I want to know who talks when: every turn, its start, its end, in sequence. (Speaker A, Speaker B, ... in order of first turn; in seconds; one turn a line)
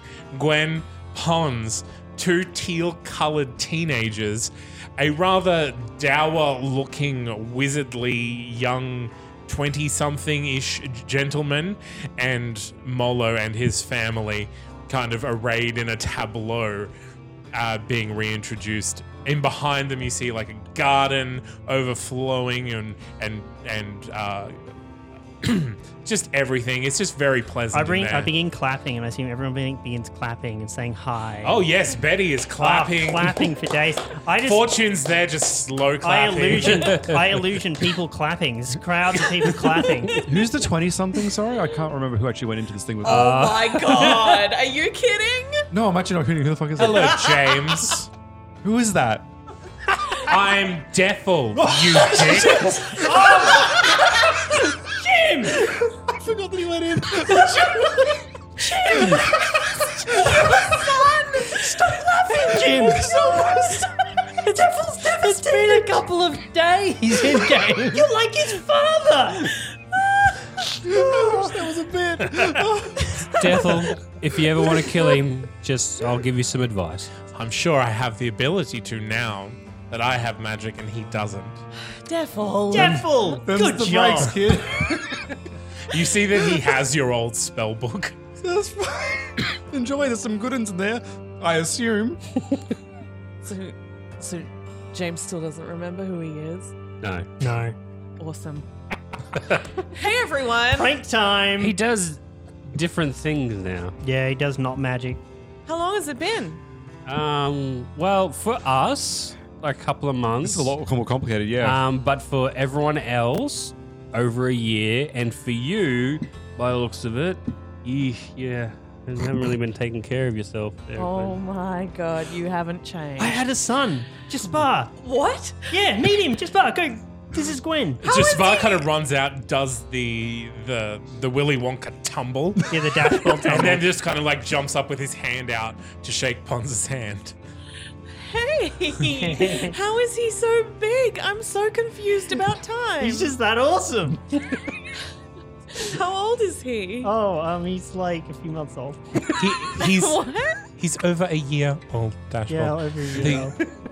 Speaker A: 0.3-16.9
Speaker A: 17.5-24.6
Speaker A: 25.4-28.3
Speaker B: 27.7-31.6
Speaker A: 31.4-33.5
Speaker B: 32.6-34.7
Speaker A: 34.4-37.2
Speaker B: 36.0-40.2
Speaker C: 40.0-40.4
Speaker D: 40.1-44.5
Speaker C: 43.0-45.7
Speaker D: 45.7-48.0
Speaker A: 46.8-48.1
Speaker D: 48.6-49.3
Speaker A: 50.2-53.0
Speaker D: 51.5-58.0
Speaker B: 58.8-59.6
Speaker D: 60.1-60.7
Speaker B: 61.6-66.0
Speaker C: 62.4-63.5
Speaker E: 65.2-68.0
Speaker B: 67.4-69.6
Speaker D: 70.8-73.5
Speaker B: 71.1-71.5
Speaker F: 73.4-77.1
Speaker A: 77.3-81.6
Speaker C: 81.9-83.4
Speaker B: 82.7-84.3
Speaker D: 83.4-85.3
Speaker A: 85.9-88.2
Speaker D: 88.4-92.2
Speaker C: 93.4-96.7
Speaker F: 97.0-97.3
Speaker B: 97.4-97.7
Speaker C: 98.2-98.7
Speaker C: 99.8-100.9
Speaker B: 100.7-101.8
Speaker F: 101.6-103.9
Speaker B: 104.0-105.2
Speaker C: 105.7-106.6
Speaker F: 107.1-110.7
Speaker D: 110.4-111.8
Speaker F: 111.6-121.4
Speaker C: 121.0-123.5
Speaker B: 123.2-124.9
Speaker C: 125.0-125.7
Speaker B: 125.7-128.0
Speaker A: 128.0-137.3
Speaker C: 128.0-128.9
Speaker B: 132.7-133.9
Speaker C: 138.1-143.3
Speaker B: 139.1-139.8
Speaker B: 143.0-144.2
Speaker C: 145.7-147.1
Speaker B: 147.0-149.3
Speaker A: 149.4-150.2
Speaker C: 149.7-150.6
Speaker A: 150.8-153.5
Speaker B: 152.5-153.6